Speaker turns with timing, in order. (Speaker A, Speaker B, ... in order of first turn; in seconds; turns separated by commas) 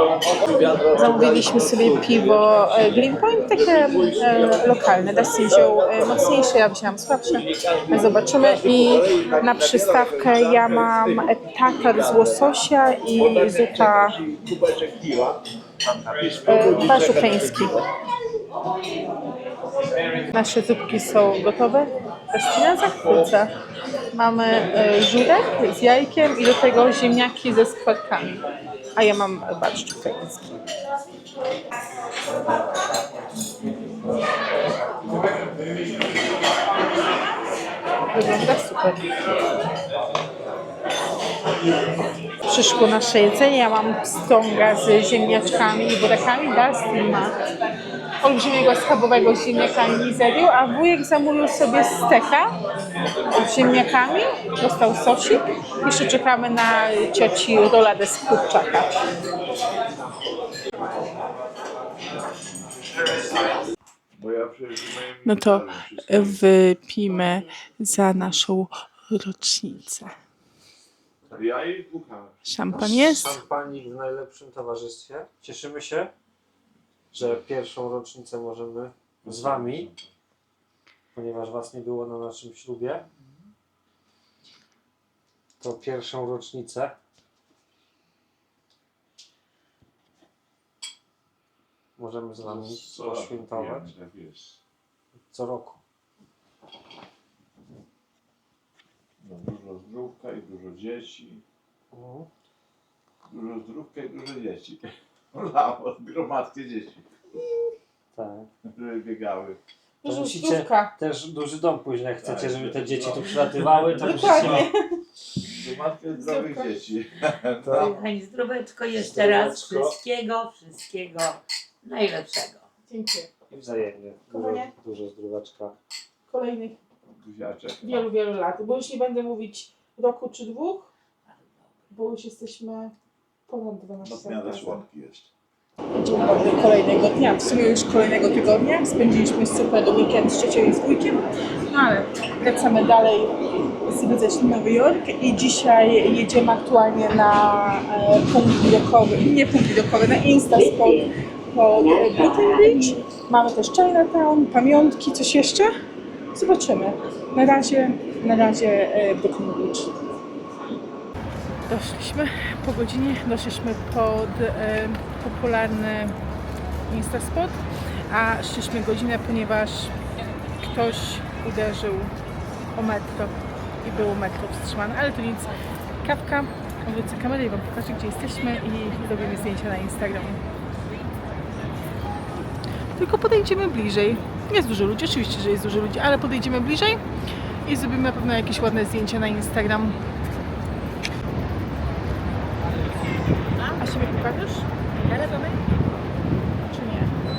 Speaker A: 0.6-1.7, Speaker B: 0.9-14.2, Speaker A: 3.9-4.5, Speaker A: 8.4-11.3, Speaker A: 11.9-12.4, Speaker A: 13.1-15.4, Speaker A: 16.1-17.8, Speaker B: 16.4-17.7, Speaker B: 20.3-23.5, Speaker B: 24.1-28.4, Speaker B: 28.9-30.6, Speaker B: 38.1-39.1, Speaker B: 42.5-47.4, Speaker B: 48.2-52.5, Speaker B: 53.3-58.9, Speaker A: 64.2-66.4, Speaker B: 65.2-70.1, Speaker A: 71.3-72.3, Speaker B: 72.4-73.4, Speaker C: 72.8-76.1, Speaker C: 77.1-79.9, Speaker A: 79.2-80.1, Speaker C: 81.1-83.0, Speaker C: 85.6-86.9, Speaker C: 92.0-93.9, Speaker A: 92.4-94.6, Speaker C: 95.3-95.8, Speaker A: 99.2-101.4, Speaker C: 101.9-102.3, Speaker A: 103.2-107.0, Speaker C: 108.1-108.5, Speaker A: 108.7-109.6, Speaker B: 110.0-111.0, Speaker C: 110.0-114.7, Speaker A: 112.2-114.5, Speaker B: 114.0-115.0, Speaker A: 115.5-118.0, Speaker B: 116.1-116.8, Speaker C: 117.6-118.0, Speaker D: 117.9-122.6, Speaker C: 118.9-120.0, Speaker B: 122.9-123.3, Speaker C: 123.5-125.8, Speaker B: 124.3-124.7, Speaker B: 126.3-126.8, Speaker A: 127.2-128.1, Speaker B: 127.8-130.9, Speaker B: 131.9-132.9, Speaker B: 133.5-134.8, Speaker A: 134.0-135.3, Speaker B: 135.9-155.7, Speaker B: 156.3-159.9, Speaker B: 161.7-166.2, Speaker B: 166.9-169.9, Speaker B: 170.6-172.1, Speaker B: 172.7-180.4, Speaker B: 183.0-187.0, Speaker B: 187.6-190.0, Speaker B: 193.7-194.7, Speaker B: 196.7-197.1